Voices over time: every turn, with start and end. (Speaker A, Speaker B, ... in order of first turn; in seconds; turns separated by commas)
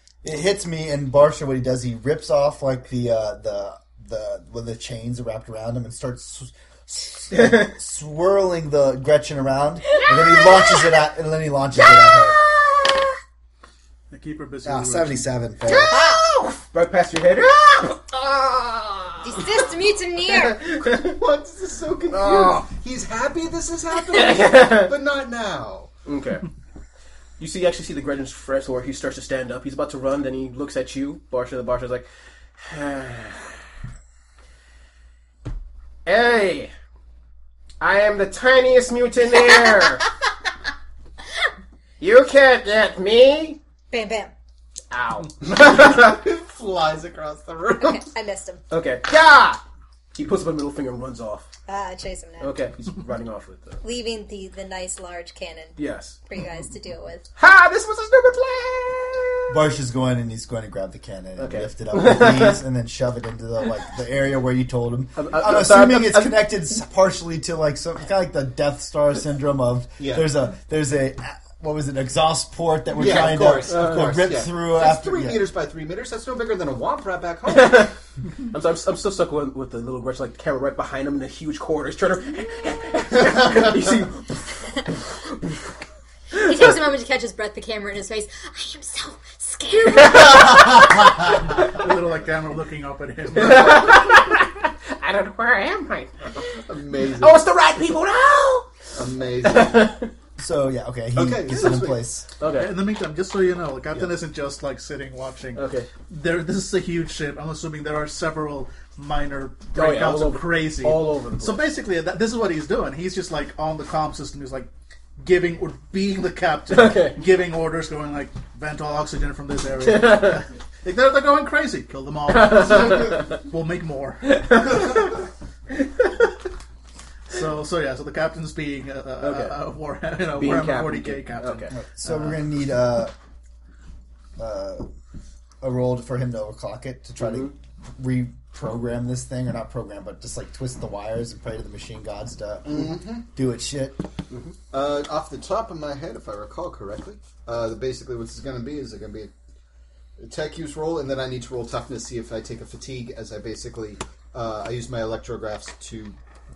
Speaker A: 0.2-12.4, Speaker B: 7.3-7.7, Speaker B: 9.9-10.9, Speaker B: 12.1-12.9, Speaker C: 14.1-15.2, Speaker A: 14.6-15.9, Speaker B: 15.7-19.3, Speaker D: 15.7-16.2, Speaker D: 19.2-20.6, Speaker B: 20.4-21.2, Speaker E: 20.8-25.9, Speaker B: 22.1-22.7, Speaker B: 24.0-24.9, Speaker B: 26.1-26.4, Speaker B: 27.4-33.6, Speaker B: 36.0-36.7, Speaker B: 37.8-40.1, Speaker B: 42.0-43.6, Speaker D: 43.9-44.3, Speaker B: 44.9-46.2, Speaker E: 45.4-48.0, Speaker D: 47.8-48.6, Speaker B: 48.7-49.6, Speaker B: 50.1-51.5, Speaker D: 51.7-52.5, Speaker B: 52.4-53.8, Speaker D: 53.8-57.2, Speaker B: 55.8-56.1, Speaker B: 57.4-59.6, Speaker A: 59.5-75.5, Speaker B: 61.4-62.6, Speaker B: 65.2-66.5, Speaker E: 70.0-70.3, Speaker E: 72.9-77.9, Speaker B: 73.0-74.3, Speaker B: 77.5-77.9, Speaker B: 78.5-85.3, Speaker D: 86.4-90.9, Speaker B: 90.0-90.9, Speaker C: 91.5-94.0, Speaker B: 93.4-100.1, Speaker E: 96.5-97.4, Speaker E: 98.9-99.8, Speaker A: 100.4-102.3, Speaker E: 101.1-102.0, Speaker B: 102.4-102.7, Speaker C: 102.4-125.0, Speaker B: 105.5-105.9, Speaker B: 109.7-111.7, Speaker B: 116.7-117.2, Speaker B: 119.9-120.4, Speaker B: 122.3-123.4, Speaker B: 124.2-125.1, Speaker B: 125.7-126.2, Speaker C: 127.3-131.9, Speaker B: 129.2-129.6, Speaker B: 130.3-131.7, Speaker A: 131.8-133.1, Speaker A: 134.4-134.8, Speaker A: 135.6-144.0, Speaker B: 137.2-137.5, Speaker E: 142.7-143.2, Speaker E: 144.7-149.3, Speaker E: 150.2-156.2